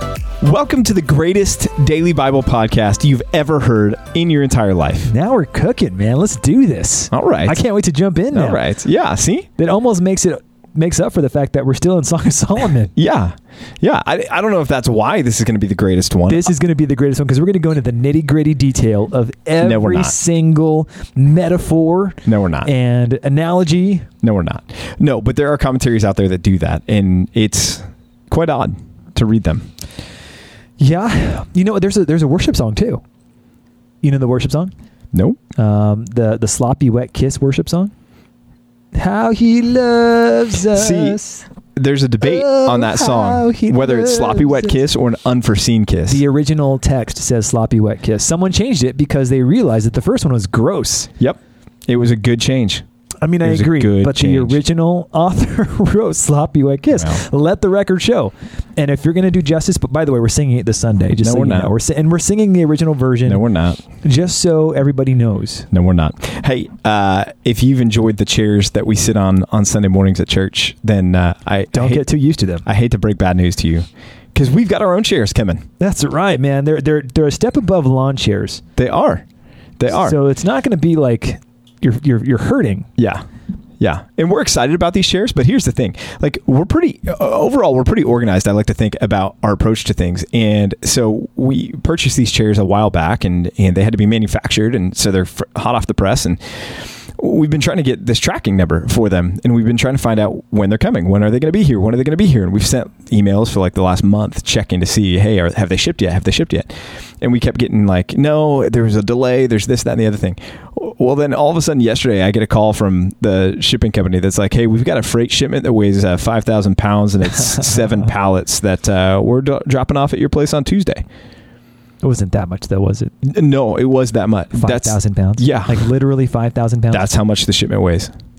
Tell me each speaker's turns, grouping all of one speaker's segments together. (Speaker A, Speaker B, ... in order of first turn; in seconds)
Speaker A: 0.4-5.1, 7.1-7.6, 8.3-9.5, 13.0-16.5, 19.6-20.1, 22.2-22.7, 24.2-29.7, 35.1-35.4, 40.7-41.2, 41.8-46.2, 51.2-52.8, 53.4-54.6, 57.0-57.2, 61.2-61.7, 63.3-63.8, 65.7-72.1, 72.7-75.7, 78.8-79.2, 79.8-80.2, 83.0-83.2, 83.8-106.7, 107.2-121.0, 123.2-125.9, 126.9-128.1
Speaker B: 5.1-8.6, 9.6-12.9, 16.3-24.1, 30.8-33.0, 34.0-34.7, 35.6-37.9, 38.9-41.5, 42.2-44.8, 46.1-51.1, 53.2-63.4, 64.0-65.7, 71.7-72.7, 75.8-78.6, 79.9-82.9, 122.0-123.1, 124.5-127.1